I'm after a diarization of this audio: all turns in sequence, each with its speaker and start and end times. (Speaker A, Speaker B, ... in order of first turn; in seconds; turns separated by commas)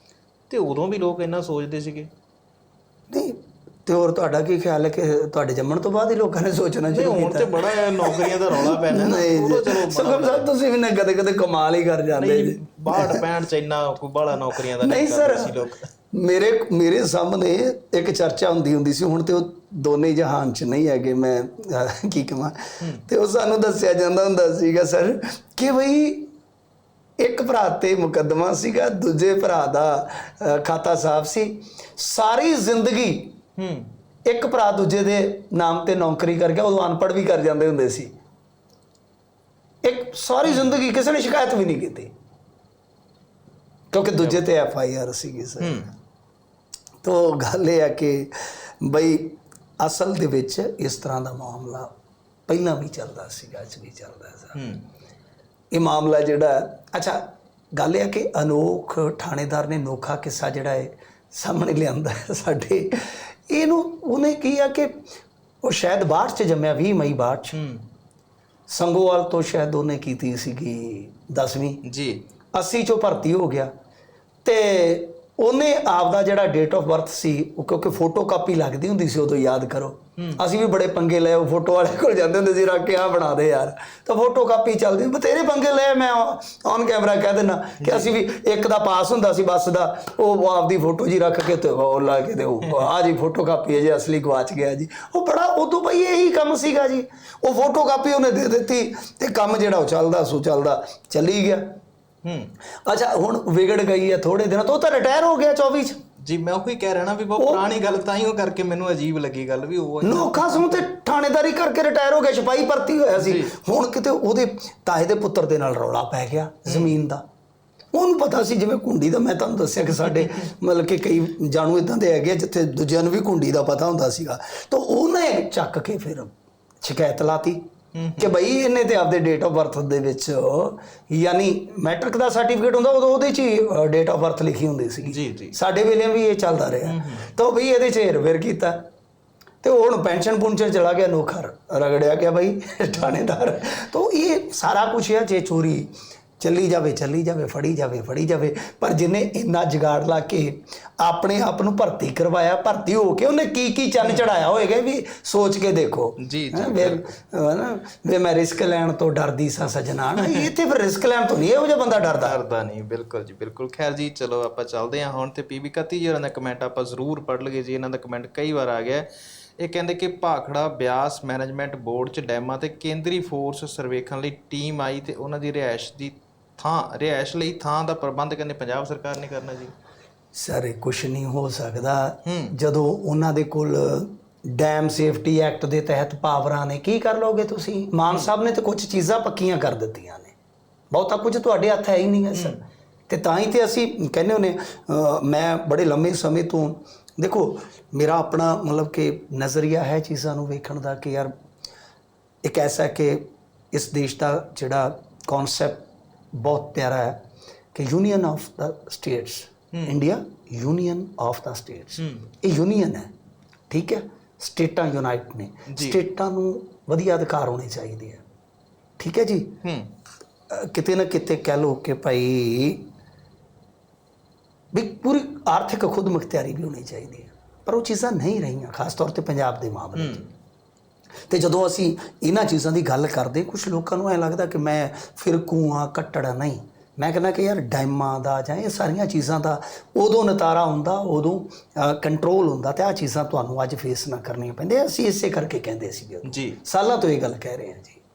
Speaker A: 0.5-2.1, Speaker B: 3.1-13.2, Speaker A: 6.9-10.5, Speaker A: 12.1-15.9, Speaker B: 14.8-15.5, Speaker B: 16.1-26.3, Speaker B: 27.2-33.4, Speaker A: 33.6-33.9, Speaker B: 34.2-38.1, Speaker B: 39.8-42.1, Speaker A: 40.5-40.7, Speaker B: 43.9-45.8, Speaker A: 45.6-45.9, Speaker B: 47.0-51.9, Speaker B: 52.5-54.6, Speaker A: 54.5-54.9, Speaker B: 55.7-65.0, Speaker B: 65.6-67.6, Speaker A: 67.5-67.8, Speaker B: 68.7-71.8, Speaker A: 71.8-72.2, Speaker B: 72.5-73.7, Speaker B: 74.4-101.6, Speaker A: 87.8-88.1, Speaker A: 102.2-102.5, Speaker B: 102.8-106.0, Speaker A: 106.2-110.8, Speaker B: 107.4-107.7, Speaker B: 110.0-117.2, Speaker A: 113.2-113.5, Speaker B: 117.9-127.6, Speaker A: 127.9-128.3, Speaker B: 128.2-138.8, Speaker A: 135.0-135.6, Speaker A: 136.8-137.3, Speaker B: 139.6-162.4, Speaker A: 156.2-157.1, Speaker A: 160.2-160.5, Speaker A: 161.9-169.1, Speaker A: 169.6-179.7, Speaker B: 180.3-190.3, Speaker A: 182.2-182.5, Speaker B: 190.9-201.3, Speaker B: 202.4-207.2, Speaker B: 207.7-213.1, Speaker A: 212.0-212.2, Speaker B: 213.7-218.2, Speaker A: 215.7-216.0, Speaker B: 219.0-219.6, Speaker A: 219.6-219.9, Speaker B: 220.5-222.8, Speaker B: 224.7-230.2, Speaker A: 229.9-230.3, Speaker B: 231.3-248.0, Speaker A: 246.2-246.6